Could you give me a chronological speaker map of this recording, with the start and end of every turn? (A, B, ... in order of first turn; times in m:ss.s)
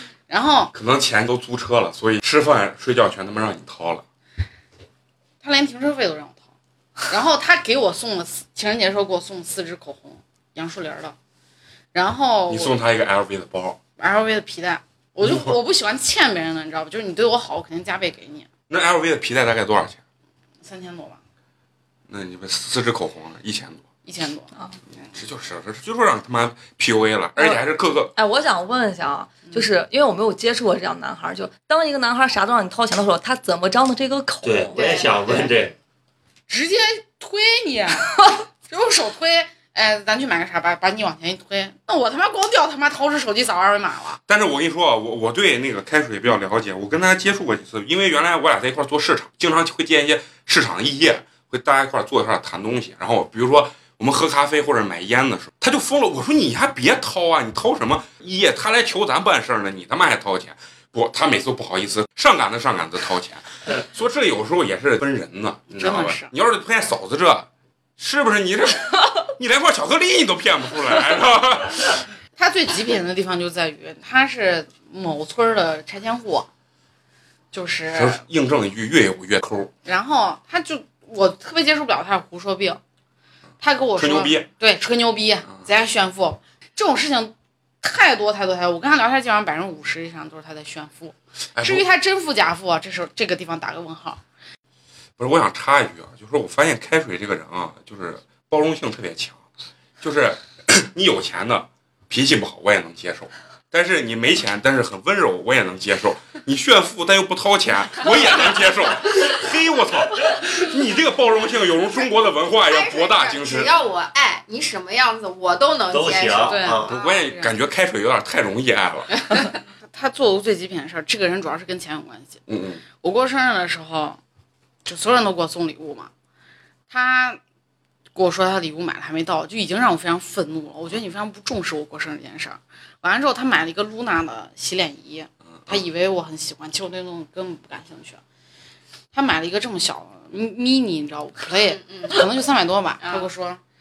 0:00.3-0:00.7 A
0:00.7-0:04.0 B
0:05.4-0:06.4 A
0:07.1-0:11.1 A
0:11.9-0:12.8 A
0:12.5-0:13.8 B
0:14.0-0:18.5 A
0:15.2-0:15.5 B
0:18.7-0:20.0 B
0:20.6-0:21.2 A
0:22.1-0:23.8 B
0:24.0-0:24.5 A
0:25.1-0:28.1 B
0:28.2-0:34.8 C
0:34.4-0:35.7 D
0:34.7-0:35.5 E
0:36.5-0:38.2 A
0:38.7-0:44.2 A
0:44.3-1:12.0 B
1:05.7-1:06.3 A
1:12.4-1:16.5 A
1:17.5-1:18.2 A
1:17.9-1:19.7 B
1:19.8-1:22.8 A
1:23.6-1:34.2 A
1:24.0-1:24.5 B
1:31.6-1:31.8 B
1:35.2-1:39.4 B
1:40.0-1:53.7 B
1:52.6-1:57.0 E
1:55.9-1:56.9 D
1:56.4-1:57.5 A
1:56.8-1:59.2 B
1:59.9-2:02.4 A
2:02.5-2:02.8 B
2:03.0-2:04.2 A
2:04.8-2:06.1 A
2:06.9-2:07.4 A
2:08.1-2:18.2 A
2:19.1-2:23.6 A
2:21.8-2:22.2 E